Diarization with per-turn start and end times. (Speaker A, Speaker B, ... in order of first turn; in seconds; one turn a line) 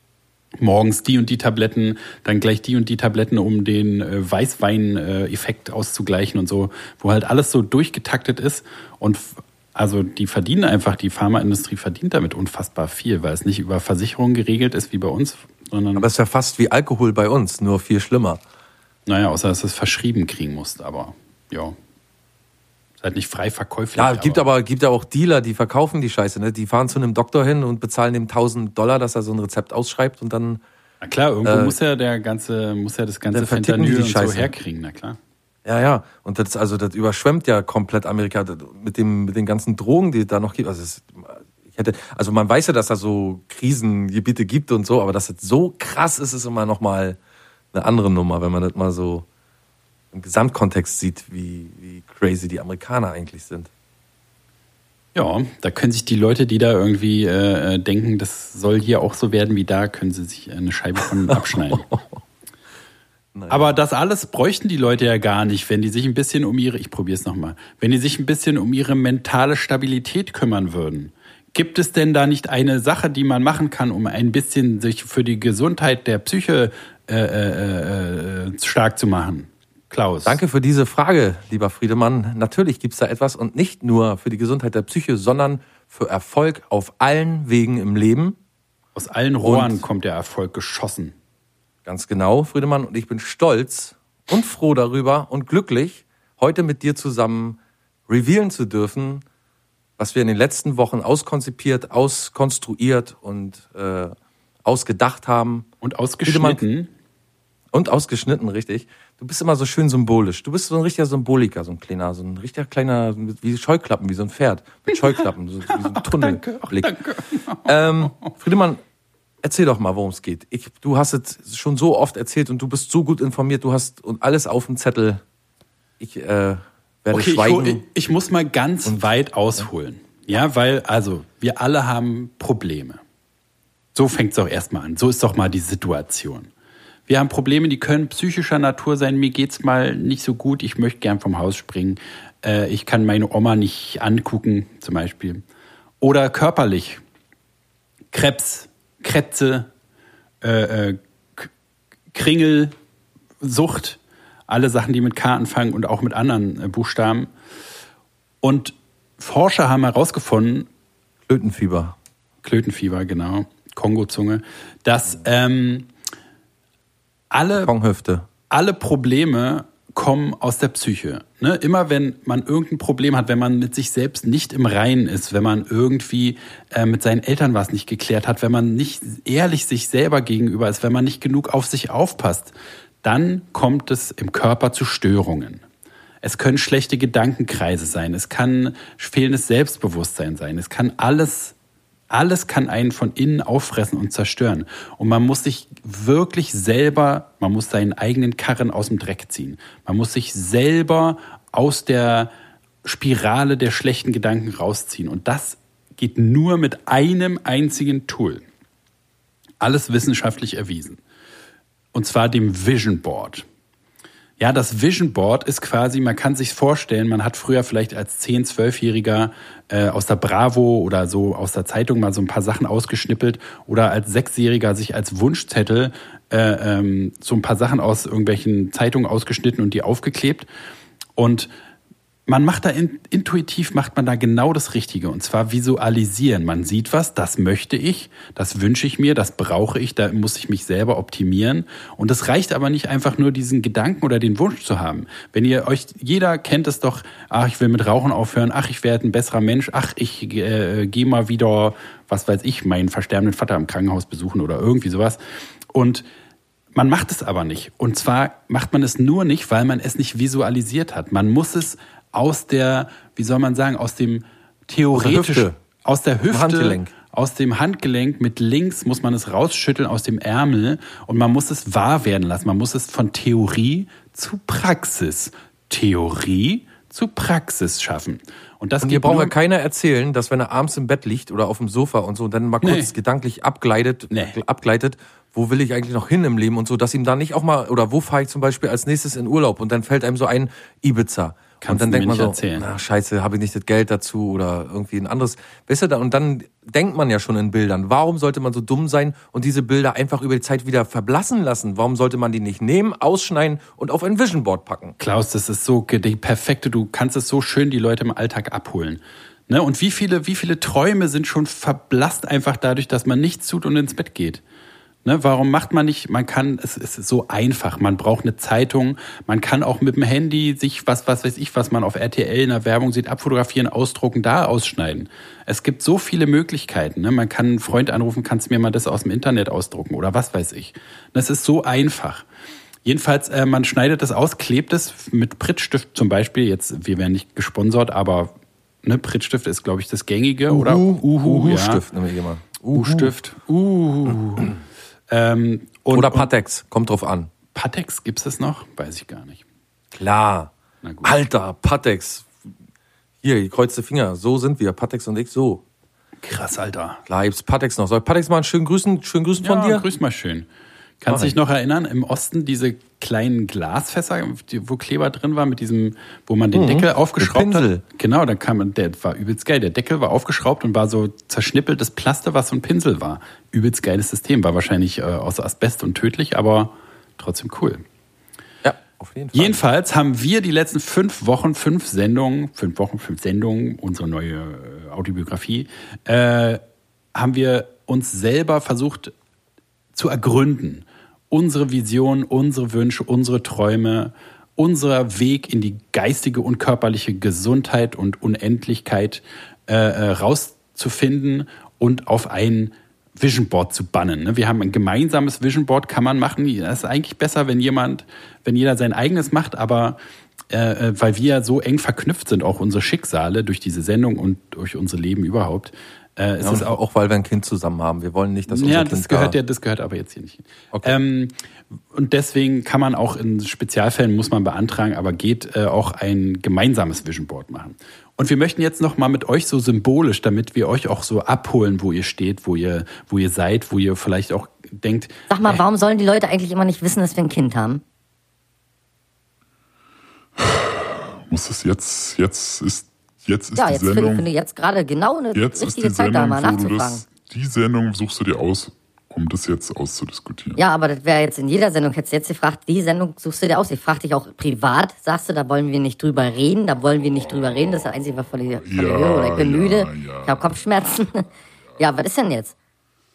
Speaker A: 0.6-16.1
Speaker B: 15.9-18.4
Speaker A: 19.1-21.7
Speaker A: 23.0-24.4
Speaker B: 23.9-30.6
Speaker A: 31.0-35.2
Speaker B: 31.4-31.7
Speaker B: 33.3-34.5
Speaker B: 35.6-47.2
Speaker B: 47.7-49.2
Speaker B: 50.1-53.7
Speaker A: 55.1-61.9
Speaker B: 61.3-62.2
Speaker B: 63.3-63.7
Speaker A: 63.5-80.4
Speaker B: 80.2-88.4
Speaker A: 88.9-91.1
Speaker B: 89.4-89.8
Speaker B: 91.8-99.2
Speaker B: 100.0-105.7
Speaker A: 105.8-106.9
Speaker B: 106.2-106.6
Speaker B: 107.7-117.0
Speaker A: 115.7-118.3
Speaker B: 117.6-118.8
Speaker B: 119.4-125.2
Speaker B: 126.0-127.8
Speaker A: 127.1-133.0
Speaker A: 133.9-136.5
Speaker A: 137.1-145.4
Speaker A: 146.0-147.0
Speaker A: 148.1-149.7
Speaker A: 150.4-151.5
Speaker A: 152.1-152.7
Speaker A: 153.4-157.3
Speaker A: 158.4-160.7
Speaker B: 161.3-161.9
Speaker A: 162.4-165.9
Speaker A: 167.3-167.7
Speaker B: 167.6-168.3
Speaker A: 168.5-185.6
Speaker A: 186.2-191.5
Speaker A: 192.1-202.3
Speaker A: 202.8-208.4
Speaker A: 209.6-211.0
Speaker A: 211.9-213.4
Speaker A: 214.4-230.5
Speaker A: 231.2-231.5
Speaker A: 232.3-255.2
Speaker A: 255.7-256.0
Speaker A: 256.7-279.3
Speaker B: 264.9-265.6
Speaker B: 266.3-266.9
Speaker B: 278.8-304.9
Speaker A: 282.6-282.9
Speaker A: 284.1-284.4
Speaker A: 291.6-292.7
Speaker A: 305.0-314.4
Speaker A: 315.0-332.2
Speaker A: 332.8-338.3
Speaker A: 338.8-341.8
Speaker B: 340.5-343.1
Speaker A: 342.7-344.6
Speaker A: 345.1-346.3
Speaker B: 345.9-347.3
Speaker A: 347.5-349.4
Speaker B: 349.9-350.5
Speaker A: 350.8-351.1
Speaker B: 351.0-352.3
Speaker B: 353.2-355.6
Speaker A: 356.2-357.0
Speaker B: 357.1-359.9
Speaker A: 359.4-360.5
Speaker A: 361.0-377.8
Speaker B: 361.1-361.3
Speaker B: 366.5-367.8
Speaker B: 378.6-379.6
Speaker A: 379.3-386.6
Speaker A: 387.1-389.1
Speaker A: 389.9-410.0
Speaker A: 410.5-416.8
Speaker B: 416.4-419.4
Speaker A: 418.5-421.4
Speaker A: 421.9-435.6
Speaker C: 435.3-437.8
Speaker D: 440.4-444.3
Speaker C: 443.6-447.0
Speaker D: 445.3-450.6
Speaker C: 450.6-462.5
Speaker D: 458.6-460.6